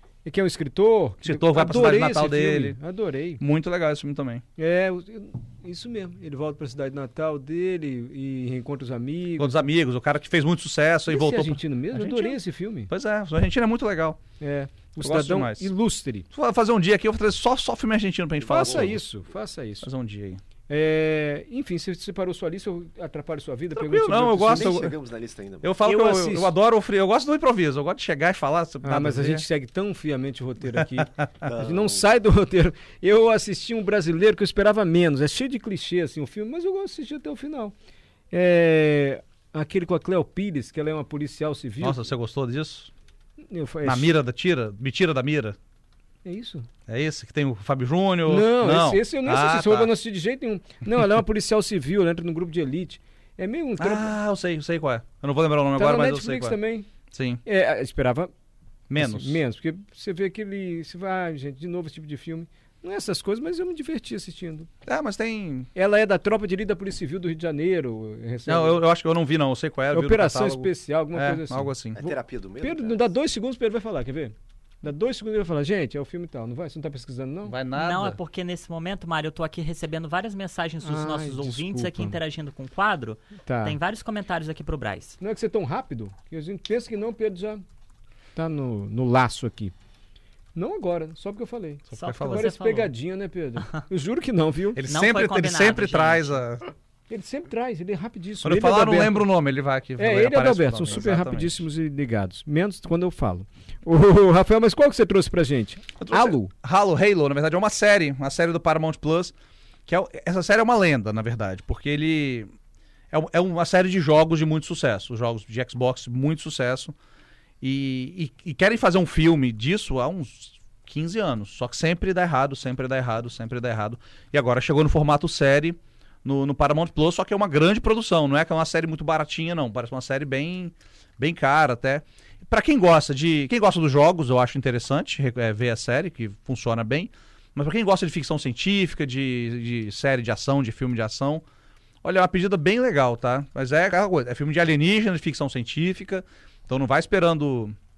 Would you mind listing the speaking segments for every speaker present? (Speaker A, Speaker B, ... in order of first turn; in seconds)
Speaker A: 0.2-3.4, 4.6-9.6, 11.1-12.9, 14.4-16.3, 18.4-19.9, 20.7-24.9, 25.8-26.5, 28.8-37.7, 38.3-42.1, 43.5-44.2, 46.2-46.7, 48.2-54.1, 55.8-56.9, 57.4-58.3, 59.0-64.7, 65.7-68.8, 69.9-77.5, 80.8-82.2, 83.4-83.8, 85.2-87.6, 88.3-89.7, 90.5-94.8, 97.1-99.3, 100.0-106.5
Speaker B: 1.2-2.8, 3.4-4.4, 9.4-14.2, 15.0-15.7, 16.3-19.0, 19.8-20.4, 23.7-24.9, 25.6-29.4, 41.8-42.9, 43.8-45.5, 46.9-50.0, 53.8-56.6, 57.1-57.4, 58.9-59.4, 64.8-65.7, 68.5-72.0, 77.4-78.2, 91.9-92.5, 94.7-96.7, 98.4-101.7, 106.0-109.3, 109.9-112.5, 113.1-116.9, 117.6-141.4, 142.0-147.7
Speaker C: 18.4-18.9, 24.4-25.7, 31.4-32.0, 71.9-73.1
Speaker D: 77.8-85.2, 91.9-92.9, 94.9-96.3